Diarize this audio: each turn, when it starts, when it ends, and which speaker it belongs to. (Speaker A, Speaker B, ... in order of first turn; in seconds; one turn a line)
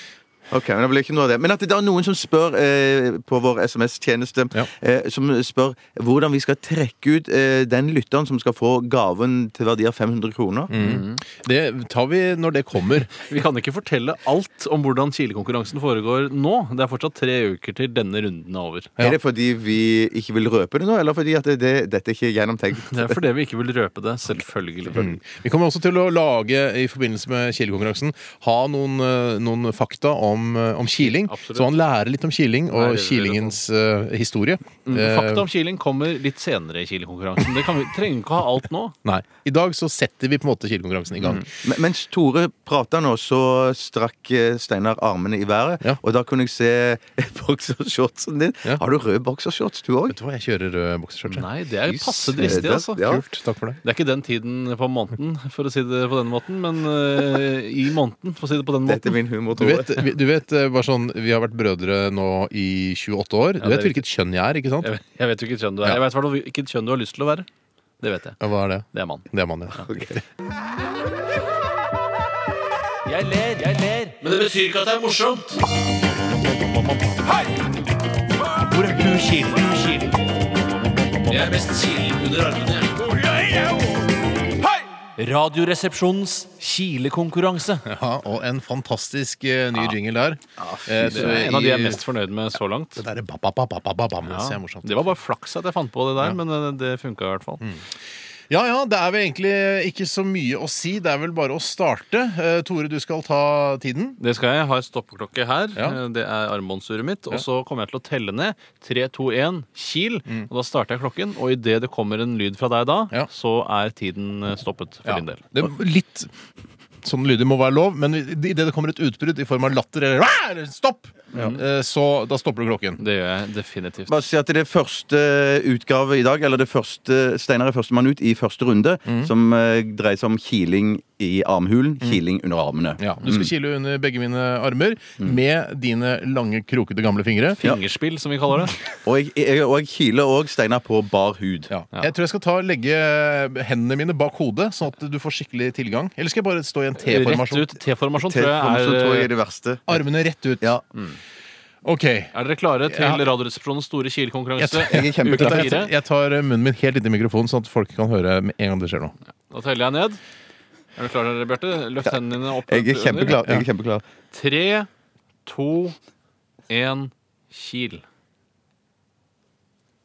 Speaker A: 0.5-10.7
Speaker B: 10.7-13.1
Speaker C: 10.8-11.2
Speaker C: 13.1-18.9
Speaker A: 19.0-23.2
Speaker C: 22.8-25.2
Speaker B: 24.9-35.5
Speaker C: 31.0-31.8
Speaker C: 32.7-33.6
Speaker C: 34.9-38.9
Speaker B: 39.0-41.5
Speaker A: 41.6-50.2
Speaker B: 50.1-51.5
Speaker C: 51.3-53.0
Speaker A: 51.9-53.2
Speaker B: 52.3-53.8
Speaker C: 53.8-59.2
Speaker A: 58.9-60.1
Speaker B: 59.6-64.9
Speaker C: 63.6-64.0
Speaker C: 64.8-67.5
Speaker C: 68.0-68.4
Speaker B: 68.4-70.1
Speaker C: 68.9-69.2
Speaker A: 69.9-70.2
Speaker C: 73.0-75.6
Speaker C: 78.5-80.2
Speaker C: 81.3-84.1
Speaker C: 84.6-87.8
Speaker B: 87.8-92.0
Speaker A: 90.8-91.4
Speaker C: 91.0-93.0
Speaker B: 93.0-95.1
Speaker C: 94.2-97.6
Speaker B: 98.5-104.2
Speaker C: 104.2-115.4
Speaker B: 115.1-116.3
Speaker B: 117.0-123.0
Speaker C: 121.3-121.6
Speaker C: 123.0-124.1
Speaker A: 124.1-133.5
Speaker B: 133.0-137.6
Speaker C: 137.6-138.8
Speaker A: 139.0-141.7
Speaker B: 141.7-147.7
Speaker C: 147.0-149.3
Speaker A: 148.2-150.0
Speaker B: 149.9-150.8
Speaker B: 151.8-152.3
Speaker C: 152.3-155.9
Speaker B: 152.9-153.2
Speaker B: 154.6-159.1
Speaker A: 154.9-155.8
Speaker C: 159.5-160.2
Speaker C: 161.0-163.4
Speaker A: 162.7-164.0
Speaker C: 164.3-164.9
Speaker C: 165.5-165.9
Speaker C: 166.7-168.0